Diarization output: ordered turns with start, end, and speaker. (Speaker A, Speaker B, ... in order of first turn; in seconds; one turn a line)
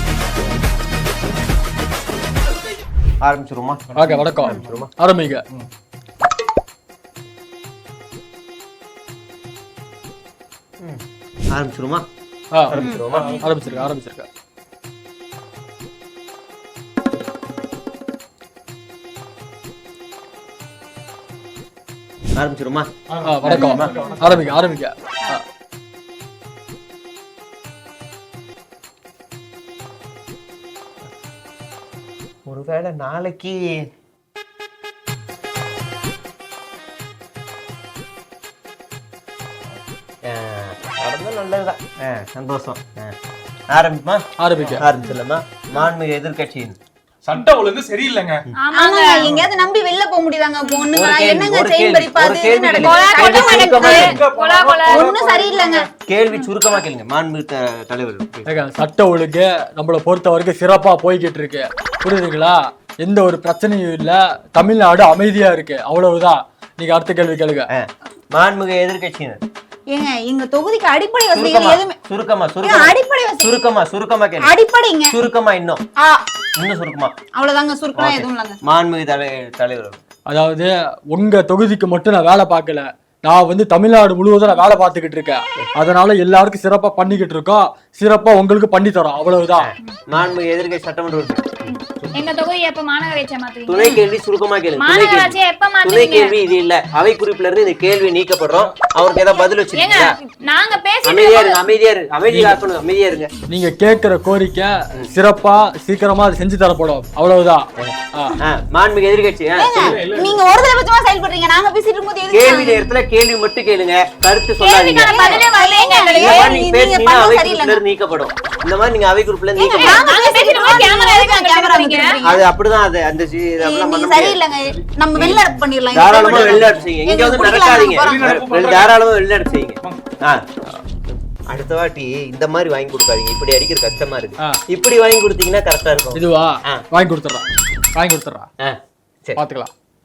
Speaker A: 3.2-4.9
Speaker B: 3.9-5.4
Speaker A: 11.5-12.1
Speaker B: 12.5-14.3
Speaker A: 12.7-13.4
Speaker C: 12.8-13.1
Speaker D: 13.2-13.7
Speaker A: 22.4-22.9
Speaker D: 23.1-24.4
Speaker B: 23.2-25.4
Speaker A: 23.4-24.4
Speaker A: 32.5-33.6
Speaker A: 40.2-43.1
Speaker A: 43.7-44.2
Speaker B: 44.4-44.8
Speaker A: 44.8-46.8
Speaker D: 47.2-48.5
Speaker E: 48.6-49.3
Speaker C: 48.7-54.1
Speaker A: 50.9-54.2
Speaker E: 52.8-55.7
Speaker D: 53.7-55.8
Speaker C: 54.9-55.9
Speaker A: 56.1-58.5
Speaker B: 58.5-67.7
Speaker A: 67.7-69.4
Speaker C: 69.9-72.0
Speaker A: 71.3-74.5
Speaker C: 72.6-73.5
Speaker C: 74.4-75.2
Speaker A: 75.1-75.8
Speaker A: 76.6-77.1
Speaker C: 77.3-78.6
Speaker A: 78.0-80.0
Speaker B: 80.3-89.7
Speaker A: 89.6-91.8
Speaker E: 91.7-94.0
Speaker A: 93.7-100.2
Speaker E: 94.8-96.4
Speaker E: 99.7-101.7
Speaker A: 101.0-103.3
Speaker B: 102.3-102.5
Speaker B: 103.5-108.4
Speaker A: 107.8-110.0
Speaker C: 109.5-112.9
Speaker D: 109.8-110.4
Speaker A: 112.3-115.4
Speaker E: 114.6-116.6
Speaker C: 114.9-117.8
Speaker A: 116.1-120.1
Speaker C: 119.5-122.5
Speaker E: 119.7-122.2
Speaker A: 122.2-124.4
Speaker C: 123.6-128.2
Speaker A: 125.1-130.4
Speaker D: 127.9-129.0
Speaker A: 131.5-136.8
Speaker B: 136.1-138.5
Speaker A: 138.6-139.4
Speaker B: 139.3-139.7